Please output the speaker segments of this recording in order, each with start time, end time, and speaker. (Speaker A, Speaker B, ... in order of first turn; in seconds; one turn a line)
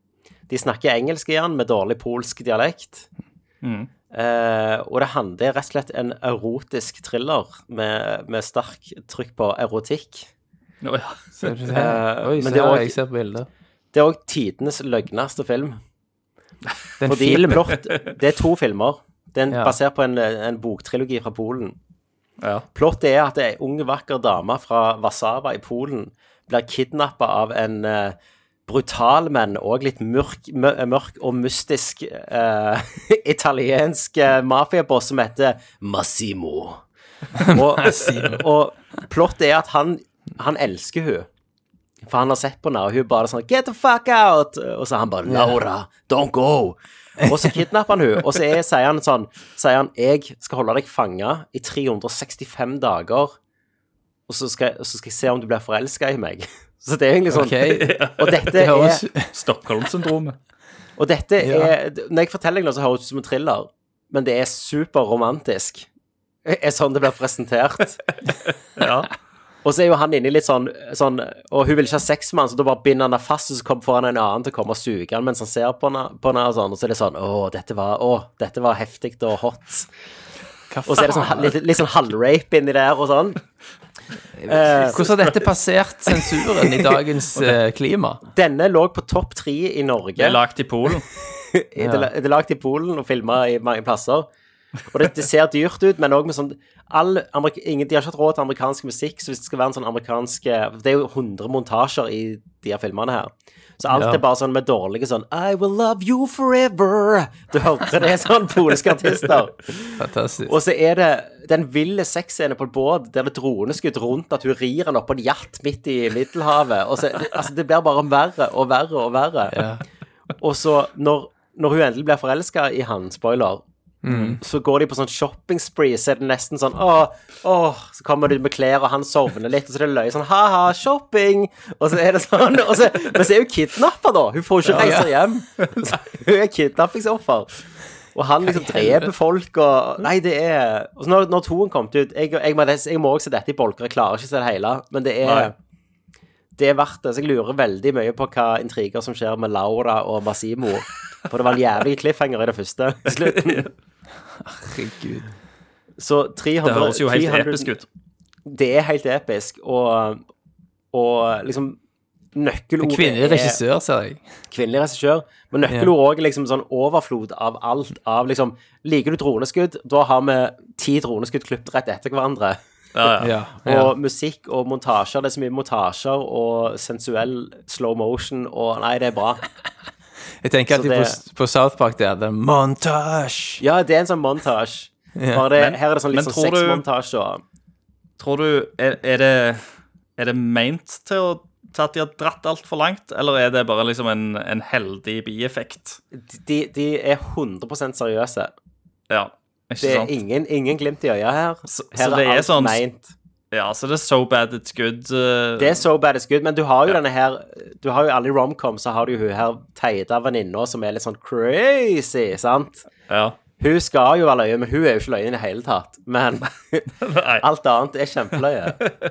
Speaker A: 0.5-3.1
Speaker B: 3.6-3.9
Speaker A: 4.1-10.3
Speaker B: 10.8-11.2
Speaker C: 11.4-13.5
Speaker A: 11.7-13.0
Speaker A: 13.9-15.8
Speaker C: 17.0-17.7
Speaker A: 17.0-21.8
Speaker C: 19.5-19.8
Speaker B: 22.4-22.6
Speaker A: 22.7-36.8
Speaker C: 37.4-38.5
Speaker A: 37.4-41.3
Speaker A: 42.0-53.3
Speaker C: 45.2-45.5
Speaker C: 47.2-47.5
Speaker A: 54.3-59.0
Speaker C: 57.3-59.3
Speaker B: 57.7-58.5
Speaker B: 59.3-60.4
Speaker A: 61.0-65.9
Speaker C: 61.4-61.7
Speaker A: 66.4-68.0
Speaker B: 68.8-69.1
Speaker A: 69.6-79.9
Speaker C: 80.7-81.6
Speaker A: 80.8-83.4
Speaker C: 84.4-88.2
Speaker A: 84.4-85.3
Speaker A: 88.3-94.3
Speaker B: 90.2-91.1
Speaker C: 91.8-92.1
Speaker A: 94.9-119.7
Speaker C: 103.9-104.2
Speaker C: 110.0-110.5
Speaker C: 119.5-119.8
Speaker A: 120.4-123.6
Speaker C: 124.0-124.4
Speaker B: 124.1-124.3
Speaker A: 124.4-137.5
Speaker C: 134.7-135.1
Speaker A: 138.1-145.5
Speaker C: 138.4-139.1
Speaker B: 145.2-145.5
Speaker A: 146.6-153.7
Speaker B: 153.2-153.6
Speaker C: 154.4-155.3
Speaker A: 156.0-157.7
Speaker B: 156.6-157.8
Speaker A: 158.4-160.2
Speaker A: 160.9-161.8
Speaker A: 162.3-163.6
Speaker C: 162.8-164.3
Speaker A: 164.5-172.6
Speaker C: 165.7-165.9
Speaker B: 172.9-173.3
Speaker C: 173.2-173.9
Speaker A: 173.6-179.4
Speaker C: 180.4-183.6
Speaker A: 180.7-181.2
Speaker A: 183.6-187.4
Speaker C: 185.2-185.5
Speaker B: 185.6-186.8
Speaker B: 188.2-189.6
Speaker B: 190.2-196.0
Speaker A: 196.1-198.5
Speaker B: 199.1-200.1
Speaker A: 199.8-203.1
Speaker B: 201.7-202.8
Speaker B: 203.5-205.8
Speaker A: 205.6-212.9
Speaker B: 213.1-213.4
Speaker A: 213.6-218.8
Speaker B: 217.0-217.4